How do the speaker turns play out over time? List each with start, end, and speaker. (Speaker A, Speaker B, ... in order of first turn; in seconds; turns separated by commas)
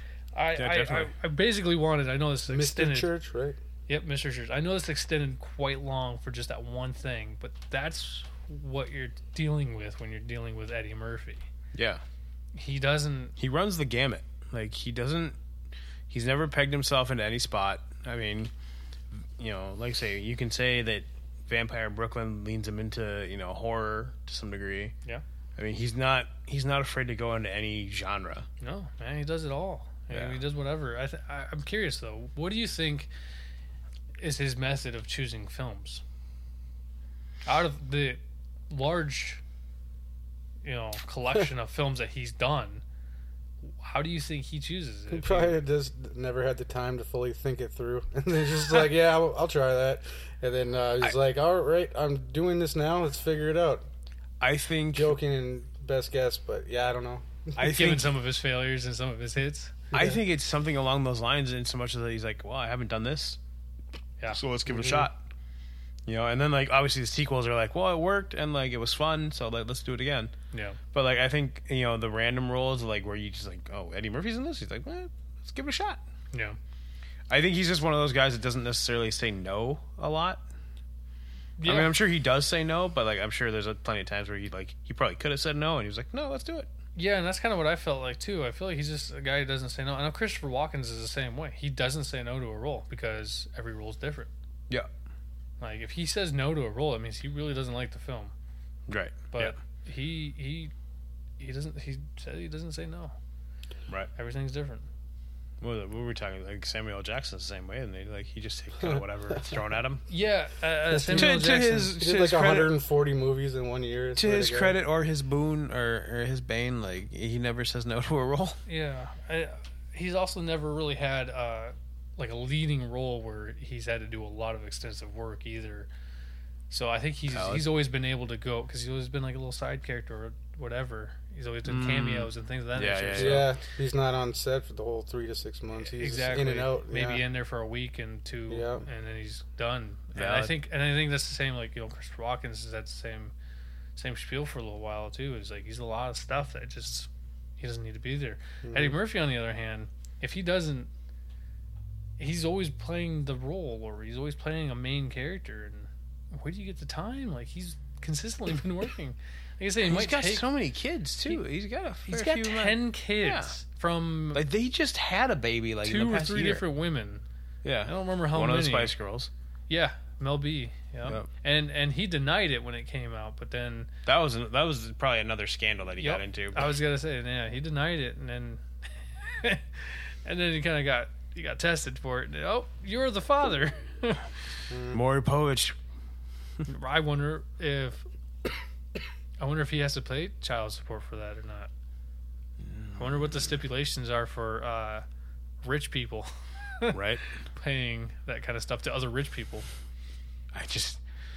Speaker A: 0.3-3.1, Speaker B: 0.5-1.1, Speaker C: 2.5-3.6, Speaker A: 3.9-11.4, Speaker B: 11.7-12.0, Speaker A: 12.5-13.3, Speaker B: 13.4-15.3, Speaker B: 16.1-18.5, Speaker B: 19.4-24.9, Speaker B: 25.6-28.5, Speaker A: 28.6-33.1, Speaker B: 30.1-30.4, Speaker A: 34.2-36.0, Speaker A: 37.5-39.4, Speaker A: 40.6-42.8, Speaker A: 43.6-45.6, Speaker C: 45.1-53.8, Speaker B: 54.4-55.2, Speaker C: 54.9-57.5, Speaker B: 57.5-58.1, Speaker A: 57.6-59.8, Speaker C: 59.9-60.2, Speaker B: 59.9-63.4, Speaker B: 64.3-65.2, Speaker C: 64.7-65.1, Speaker B: 66.0-70.3, Speaker A: 70.5-70.8, Speaker B: 70.9-76.0, Speaker A: 76.3-76.6, Speaker B: 77.3-80.4, Speaker A: 81.6-81.9, Speaker B: 81.6-86.7, Speaker A: 86.9-94.3, Speaker A: 95.6-98.3, Speaker B: 98.9-99.5, Speaker A: 99.3-100.7, Speaker A: 101.4-103.1, Speaker A: 104.2-104.9, Speaker B: 105.6-110.1, Speaker A: 110.1-111.9, Speaker C: 110.9-114.8, Speaker B: 111.1-112.7, Speaker B: 114.2-118.6, Speaker A: 118.7-125.9, Speaker A: 126.7-133.5, Speaker B: 127.3-127.7, Speaker B: 131.7-133.5, Speaker C: 133.2-137.2, Speaker A: 135.8-143.3, Speaker C: 138.5-138.8, Speaker B: 140.1-140.5, Speaker A: 143.9-150.9, Speaker C: 148.6-149.0, Speaker A: 152.2-160.5, Speaker B: 159.8-163.5, Speaker A: 162.1-164.4, Speaker B: 164.3-166.6, Speaker A: 165.8-167.2, Speaker B: 167.6-169.3, Speaker A: 167.8-168.9, Speaker A: 169.7-173.9, Speaker B: 174.1-176.8, Speaker A: 176.0-178.6, Speaker A: 179.2-184.3, Speaker C: 184.7-185.0, Speaker B: 184.9-185.7, Speaker A: 186.7-188.1, Speaker A: 189.4-191.7, Speaker B: 192.6-193.4, Speaker A: 192.9-195.0, Speaker A: 195.6-199.7, Speaker B: 196.9-197.2, Speaker B: 200.5-201.0